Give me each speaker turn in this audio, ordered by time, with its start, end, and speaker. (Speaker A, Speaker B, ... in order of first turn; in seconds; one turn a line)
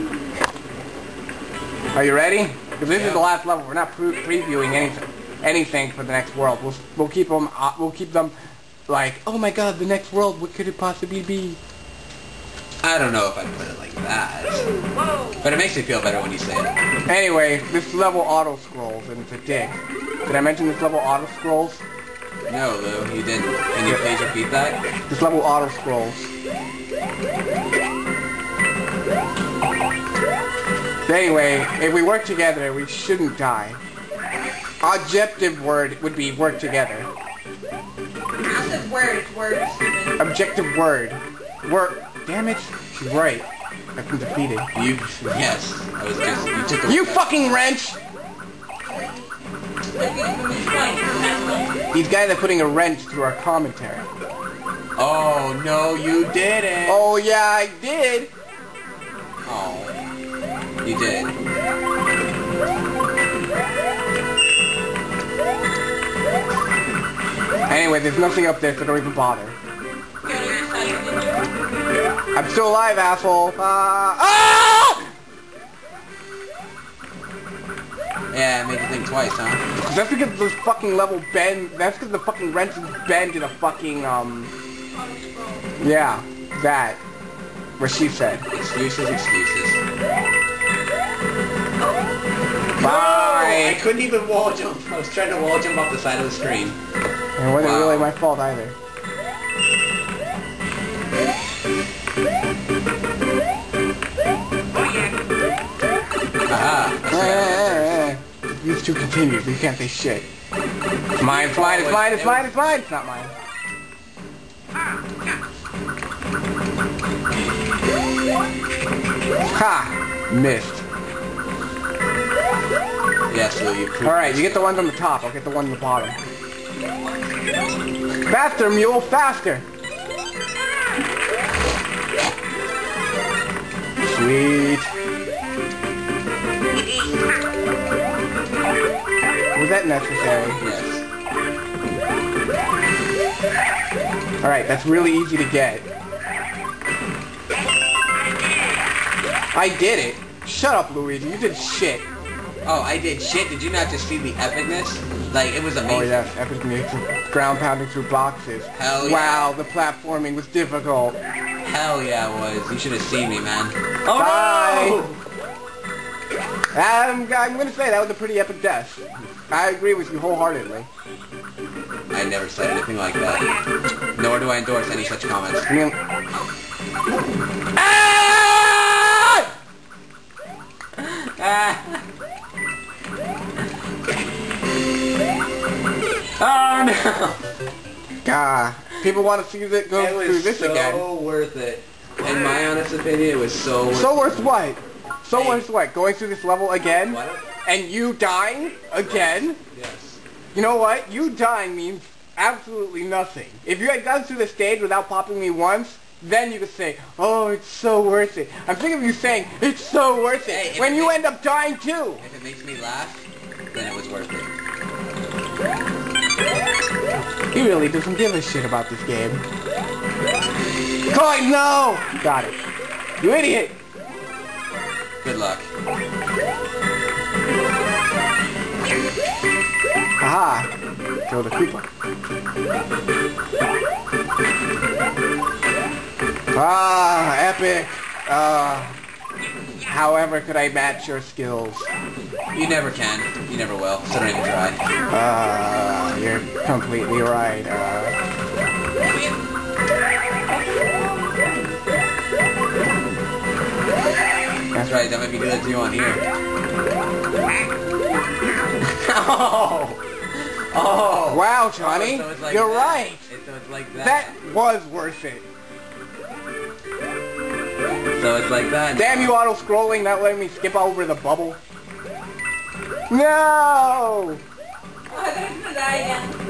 Speaker A: 1.9-8.3
Speaker B: 2.9-3.3
Speaker A: 8.9-11.6
Speaker B: 12.8-14.7
Speaker B: 15.4-16.8
Speaker A: 17.1-21.8
Speaker B: 22.5-24.8
Speaker A: 25.1-26.3
Speaker A: 31.1-33.8
Speaker A: 34.8-37.1
Speaker C: 38.4-40.2
Speaker A: 40.2-44.7
Speaker B: 44.7-47.5
Speaker A: 46.8-48.0
Speaker C: 48.9-49.3
Speaker C: 50.0-51.7
Speaker A: 51.9-54.1
Speaker B: 55.0-57.2
Speaker A: 56.9-58.3
Speaker B: 59.5-60.0
Speaker B: 60.8-61.4
Speaker A: 67.7-69.6
Speaker C: 70.2-71.5
Speaker A: 72.3-75.1
Speaker B: 78.3-79.6
Speaker A: 79.8-84.5
Speaker C: 84.9-85.7
Speaker A: 85.8-87.0
Speaker A: 87.8-88.5
Speaker B: 88.5-89.8
Speaker A: 92.8-93.8
Speaker B: 92.8-96.8
Speaker A: 97.4-98.8
Speaker B: 97.6-98.1
Speaker B: 106.5-108.2
Speaker A: 107.1-110.3
Speaker A: 111.2-113.3
Speaker B: 111.2-112.5
Speaker A: 119.5-120.8
Speaker B: 123.3-124.9
Speaker A: 124.0-126.2
Speaker A: 128.2-129.7
Speaker A: 134.0-134.9
Speaker A: 139.6-140.6
Speaker B: 140.6-141.0
Speaker A: 144.4-145.9
Speaker A: 149.5-152.1
Speaker B: 152.7-156.3
Speaker A: 155.8-161.2
Speaker B: 158.7-159.5
Speaker B: 161.6-165.2
Speaker A: 164.1-165.0
Speaker A: 166.7-170.9
Speaker B: 172.1-173.4
Speaker B: 174.1-175.7
Speaker A: 175.7-176.0
Speaker B: 177.8-179.4
Speaker B: 181.0-182.0
Speaker B: 186.4-187.4
Speaker A: 188.2-191.1
Speaker B: 189.9-194.6
Speaker A: 193.9-199.6
Speaker B: 195.3-195.7
Speaker B: 197.0-197.5
Speaker B: 199.0-200.2
Speaker A: 200.5-212.2
Speaker B: 210.5-211.2
Speaker B: 212.2-214.5
Speaker A: 217.5-219.4
Speaker A: 221.1-222.6
Speaker A: 223.2-223.8
Speaker B: 225.2-225.7
Speaker A: 230.2-230.7
Speaker A: 231.3-231.9
Speaker A: 236.5-239.0
Speaker A: 239.8-241.9
Speaker B: 242.6-244.8
Speaker A: 245.1-248.2
Speaker B: 254.8-256.2
Speaker B: 258.8-260.0
Speaker B: 260.7-264.4
Speaker A: 261.3-263.3
Speaker A: 264.0-265.4
Speaker B: 268.1-269.4
Speaker A: 269.0-271.6
Speaker A: 273.1-274.4
Speaker C: 275.1-276.4